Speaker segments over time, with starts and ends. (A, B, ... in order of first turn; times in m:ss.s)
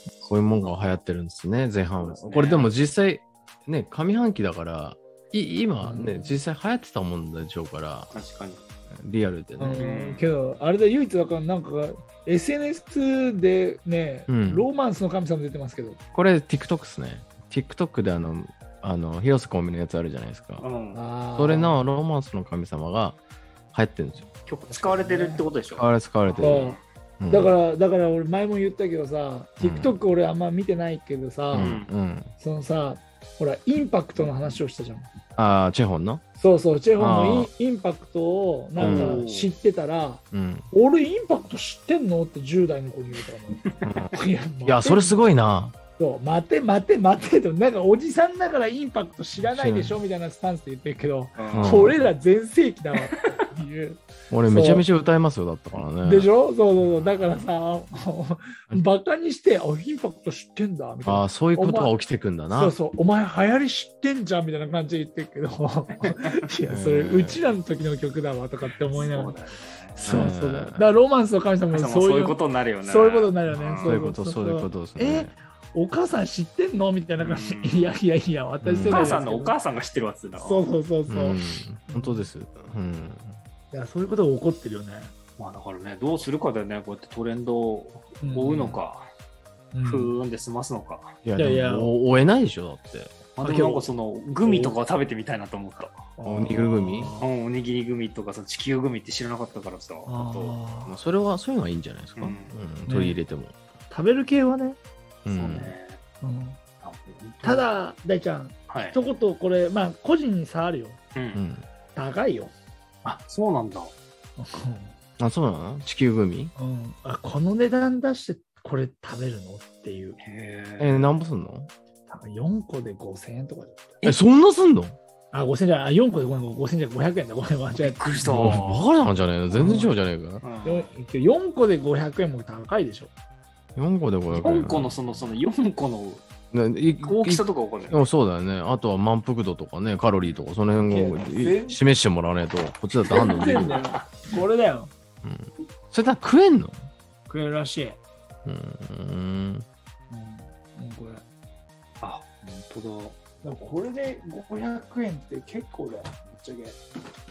0:00.2-0:08.1 A
0:00.6-0:01.0 B
0:02.0-0:02.7 B
0:05.8-0:06.4 C
0:08.1-0:08.6 B
0:09.0-0:09.9 A
0:09.6-0:16.0 C
0:09.8-0:10.3 B
0:14.3-0:14.7 A
0:16.1-0:20.6 A
0:20.6-0:21.0 B
0:20.9-0:21.8 C
0:21.4-0:23.2 A
0:23.7-0:24.3 A
0:24.4-0:26.8 B
0:24.7-0:25.4 C
0:25.7-0:27.5 A
0:26.4-0:31.8 C
0:29.6-0:30.0 A
0:31.5-0:32.3 A
0:31.5-0:31.9 B
0:32.4-0:35.1 C
0:34.1-0:34.6 B
0:35.4-0:36.2 A
0:36.4-0:45.3 C
0:37.0-0:37.5 A
0:38.8-0:39.5 B
0:38.8-0:39.2 A
0:40.3-0:40.7 A
0:43.8-0:45.7 A
0:45.9-0:54.8 C
0:49.4-0:50.0 A
0:51.4-0:52.0 B
0:51.5-0:52.0 A
0:54.3-0:56.3 A
0:56.0-1:02.0 C
1:01.0-1:02.8 A
1:02.5-1:09.4 C
1:06.7-1:07.5 A
1:08.9-1:10.3 B
1:10.0-1:10.9 A
1:10.0-1:19.5 C
1:11.7-1:14.0 B
1:13.5-1:15.3 A
1:17.2-1:17.9 B
1:18.6-1:19.1 A
1:18.8-1:20.6 B
1:20.4-1:22.3 C
1:21.1-1:23.4 A
1:23.7-1:25.1 C
1:25.4-1:29.1 B
1:28.2-1:28.8 C
1:29.7-1:30.1 C
1:29.8-1:31.2 B
1:31.2-1:33.2 A
1:31.4-1:31.9 C
1:33.4-1:36.0 B
1:33.4-1:33.9 C
1:34.4-1:34.8 C
1:36.2-1:37.3 C
1:36.2-1:37.2 A
1:37.2-1:40.6 B
1:40.0-1:40.9 C
1:40.8-1:43.5 A
1:42.2-1:42.5 B
1:42.9-1:43.2 C
1:43.9-1:44.8 C
1:45.2-1:45.7 A
1:45.3-1:46.0 B
1:46.2-1:46.6 C
1:46.8-1:47.7 B
1:47.4-1:51.0 C
1:48.7-1:49.0 B
1:51.2-1:51.4 B
1:51.3-1:51.6 A
1:51.9-1:52.5 C
1:53.0-1:53.9 B
1:54.4-1:54.9 C
1:55.2-1:56.5 A
1:56.6-2:00.2 C
2:00.2-2:01.1 B
2:00.8-2:01.7 A
2:02.1-2:04.0 C
2:04.0-2:05.0 A
2:05.3-2:08.6 C
2:07.7-2:08.9 B
2:08.2-2:10.4 A
2:09.5-2:09.9 C
2:10.4-2:10.9 B
2:10.6-2:13.1 C
2:13.8-2:14.9 A
2:14.3-2:16.2 B
2:16.5-2:23.8 A
2:17.0-2:18.0 B
2:20.9-2:21.8 C
2:23.1-2:24.0 B
2:23.1-2:24.9 C
2:25.2-2:26.9 A
2:27.3-2:28.0 C
2:28.4-2:29.6 A
2:30.1-2:31.2 C
2:32.0-2:33.2 B
2:33.4-2:36.8 C